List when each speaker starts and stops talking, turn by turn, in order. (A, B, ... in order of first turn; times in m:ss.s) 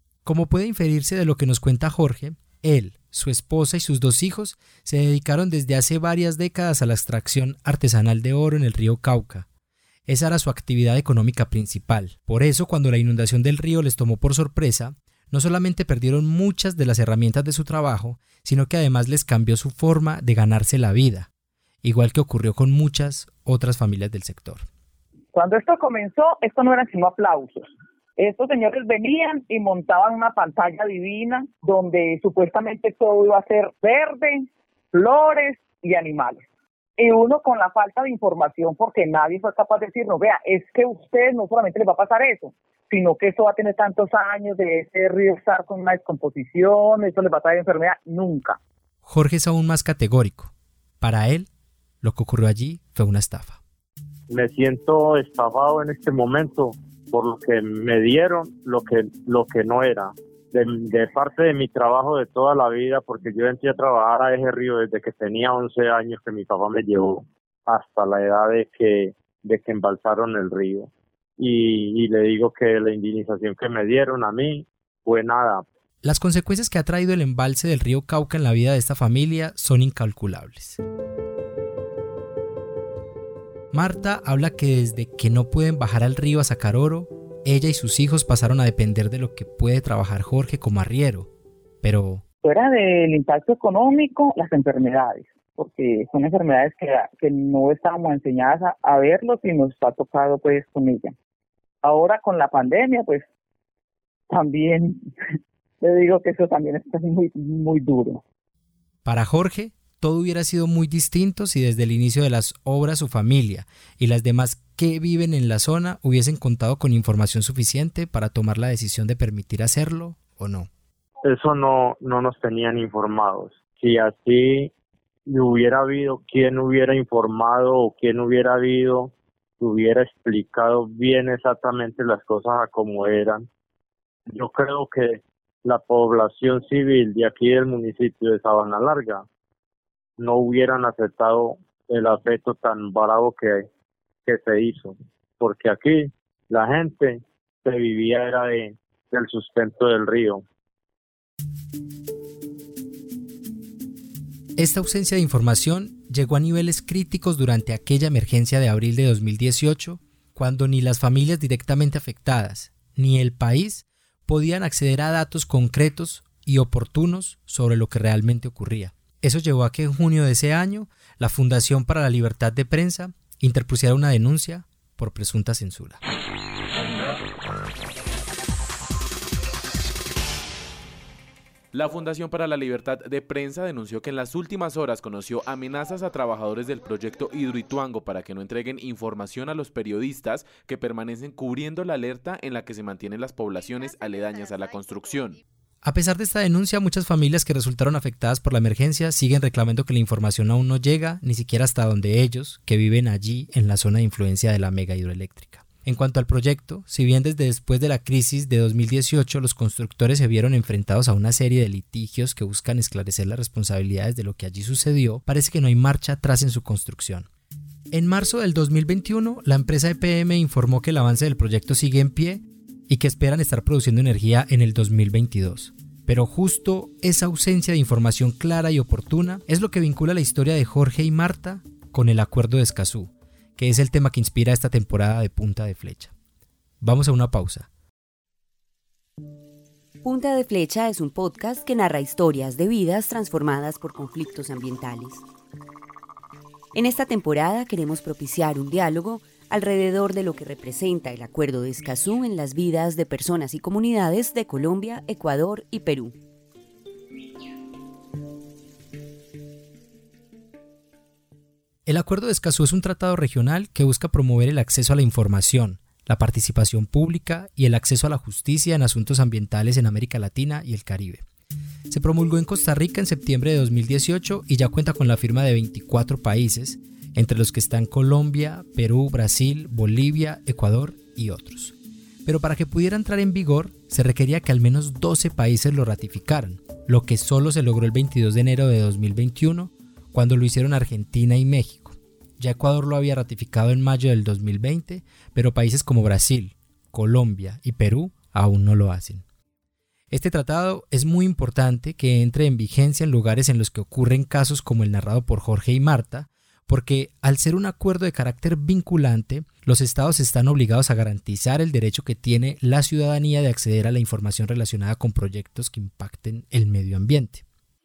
0:00.2-0:09.5 A
0:10.1-0:21.3 A
0:21.8-0:24.6 A
0:25.3-0:48.6 B
0:49.0-0:51.5 A
0:52.0-0:53.6 A
0:54.3-1:15.6 C
1:16.0-1:20.8 A
1:23.7-1:31.3 A
1:31.8-1:32.2 A
1:32.4-1:41.2 B
1:41.8-1:43.3 B
1:44.3-1:45.1 B
1:45.8-1:48.2 B
1:49.0-2:00.7 A
2:01.3-2:04.7 C
2:05.3-2:13.5 C
2:14.3-2:19.2 C
2:20.2-2:23.6 C
2:24.2-2:30.4 C
2:34.6-2:56.0 A
3:01.7-3:15.4 D
3:15.8-3:37.3 A
3:37.9-3:56.1 A
3:56.8-3:57.7 A
4:00.0-4:05.2 E
4:06.7-4:16.1 E
4:21.9-4:31.2 A
4:31.9-4:59.2 A
5:00.1-5:17.4 A